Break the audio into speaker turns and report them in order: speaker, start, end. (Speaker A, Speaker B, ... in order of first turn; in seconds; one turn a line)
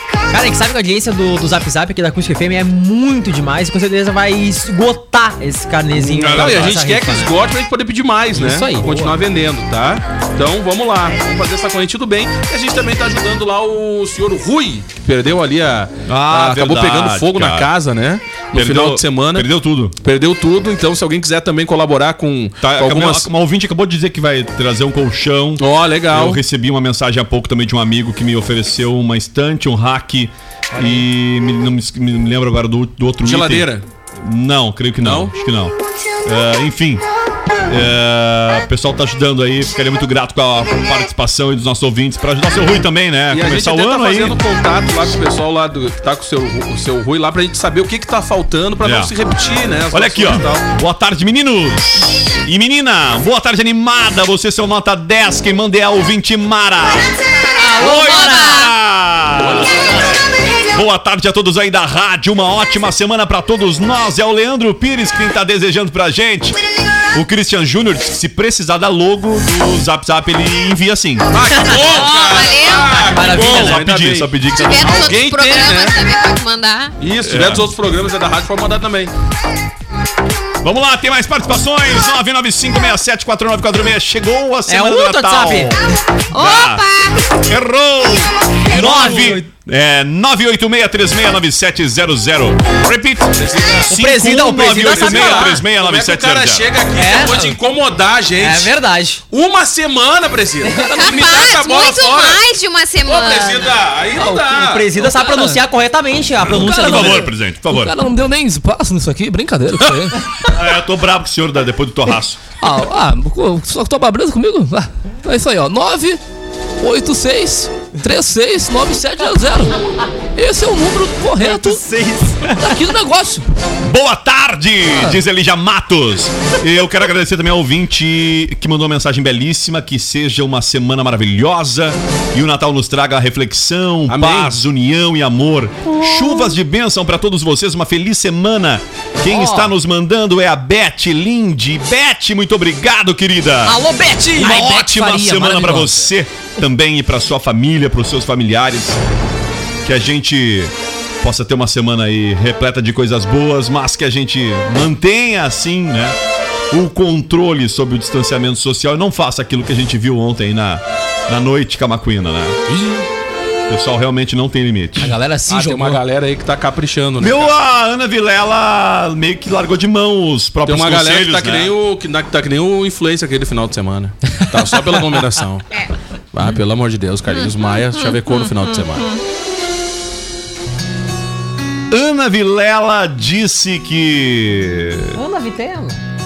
Speaker A: 0.3-7.3
Speaker B: 6.0-6.8
Speaker C: 6.2-19.5
Speaker A: 8.3-9.1
Speaker B: 16.1-17.7
Speaker B: 18.5-19.9
Speaker C: 20.0-23.3
Speaker B: 22.6-37.0
Speaker C: 25.6-26.4
Speaker C: 33.2-33.8
Speaker C: 35.0-35.3
Speaker B: 37.7-44.4
Speaker C: 43.3-50.7
Speaker B: 48.8-49.1
Speaker B: 49.9-57.1
Speaker A: 57.6-58.7
Speaker B: 57.8-60.0
Speaker D: 57.8-58.7
Speaker C: 59.4-60.2
Speaker B: 60.7-66.6
Speaker B: 67.1-71.3
Speaker C: 71.3-76.0
Speaker A: 71.5-72.0
Speaker D: 71.8-73.0
Speaker A: 72.9-73.8
Speaker B: 73.3-75.1
Speaker D: 74.5-76.9
Speaker C: 77.0-79.1
Speaker B: 77.2-77.7
Speaker B: 80.6-85.8
Speaker A: 84.7-85.8
Speaker D: 86.3-87.2
Speaker B: 86.3-86.8
Speaker B: 87.4-93.3
Speaker A: 88.7-89.5
Speaker C: 93.3-93.9
Speaker B: 93.9-96.7
Speaker A: 93.9-95.6
Speaker C: 94.8-98.7
Speaker A: 97.0-97.5
Speaker A: 98.4-99.2
Speaker C: 99.3-102.4
Speaker D: 100.9-103.7
Speaker E: 101.0-101.4
Speaker C: 103.1-105.0
Speaker A: 104.2-107.3
Speaker E: 105.0-105.6
Speaker B: 106.4-108.0
Speaker E: 106.7-110.2
Speaker B: 110.5-112.4
Speaker E: 112.6-116.2
Speaker E: 116.8-119.8
Speaker E: 120.3-121.8
Speaker A: 121.4-122.8
Speaker E: 122.5-123.5
Speaker B: 123.8-143.8
Speaker C: 134.1-134.6
Speaker A: 135.9-136.5
Speaker A: 139.3-139.7
Speaker A: 143.7-144.6
Speaker E: 144.4-146.1
Speaker B: 144.4-149.0
Speaker B: 149.8-156.2
Speaker B: 156.7-162.6
Speaker E: 162.7-163.1
Speaker B: 163.7-165.2
Speaker E: 165.0-166.0
Speaker C: 165.5-167.6
Speaker B: 167.2-171.7
Speaker C: 170.7-175.7
Speaker C: 176.3-179.1
Speaker B: 181.9-185.2
Speaker A: 185.2-186.0